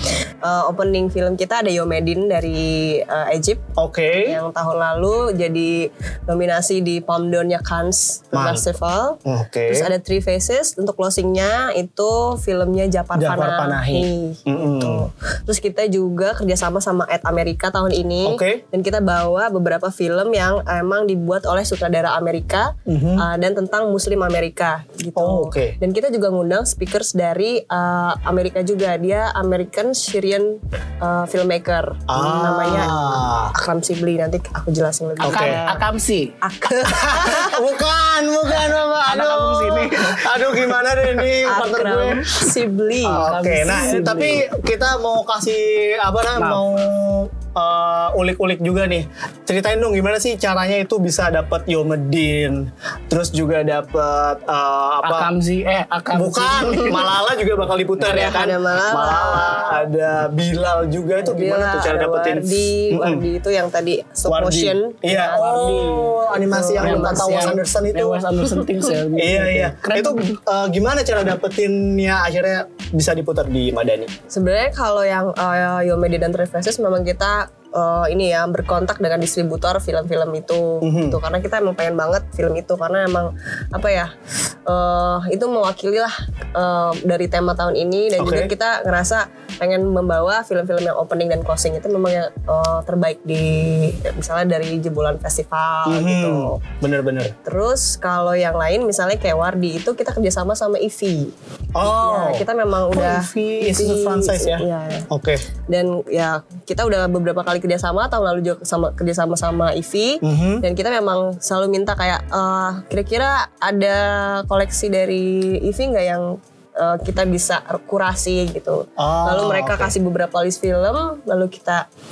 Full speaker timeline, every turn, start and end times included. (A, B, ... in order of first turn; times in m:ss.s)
0:00.4-0:03.6 A
0:03.8-0:04.4 B
0:04.2-0:35.8 A
0:08.3-0:08.6 B
0:09.2-0:09.9 B
0:13.1-0:15.0 B
0:18.2-0:18.6 B
0:22.9-0:23.2 B
0:25.2-0:25.8 B
0:32.1-0:33.5 B
0:35.2-0:35.6 B
0:35.3-0:36.3 C
0:36.4-0:37.6 A
0:36.7-0:42.4 B
0:39.0-0:40.2 C
0:41.4-0:43.3 A
0:43.0-0:55.3 B
0:43.2-0:44.4 C
0:46.4-0:46.7 C
0:55.0-0:57.0 C
0:56.1-1:03.2 B
0:58.0-0:59.8 A
1:01.2-1:05.7 A
1:04.3-1:08.3 B
1:05.3-1:10.4 C
1:06.4-1:07.6 A
1:09.1-1:14.1 B
1:14.3-1:24.1 A
1:20.8-1:21.2 B
1:24.7-1:36.6 A
1:28.2-1:28.5 B
1:35.9-1:37.3 B
1:37.4-1:45.1 A
1:41.8-1:45.4 B
1:45.7-2:01.8 A
1:50.2-1:50.6 B
1:59.0-1:59.9 B